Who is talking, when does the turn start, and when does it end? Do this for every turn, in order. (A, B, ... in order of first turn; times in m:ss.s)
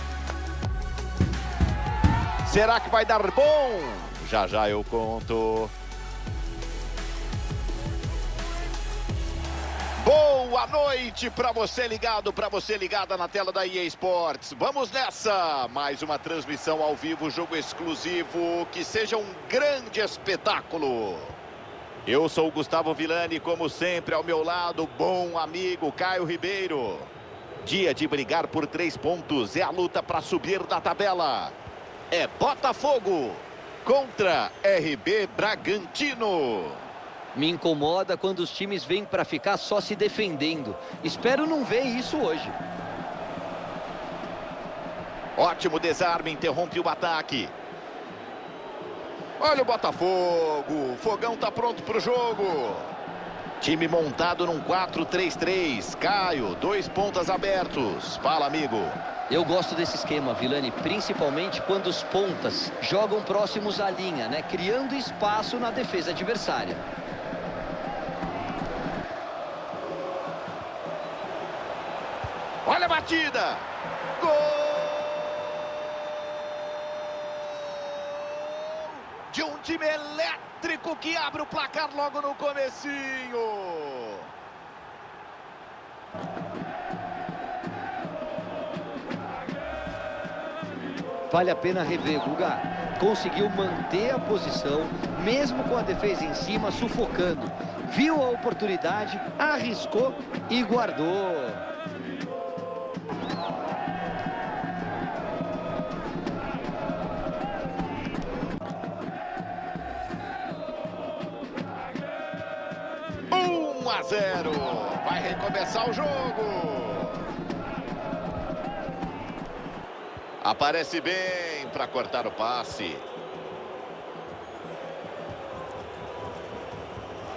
0:02.4-0:05.7 A
0:10.0-0:21.4 A
0:22.0-0:27.1 A
0:27.6-0:31.6 A
0:32.1-0:36.8 A
0:37.3-0:42.6 B
0:45.4-0:47.5 A
0:49.4-0:52.9 A
0:53.6-0:59.0 A
0:59.3-1:06.8 B
1:12.6-1:15.5 A
1:17.7-1:24.3 A
1:31.3-1:41.6 B
1:53.3-1:57.3 A
2:00.4-2:03.0 A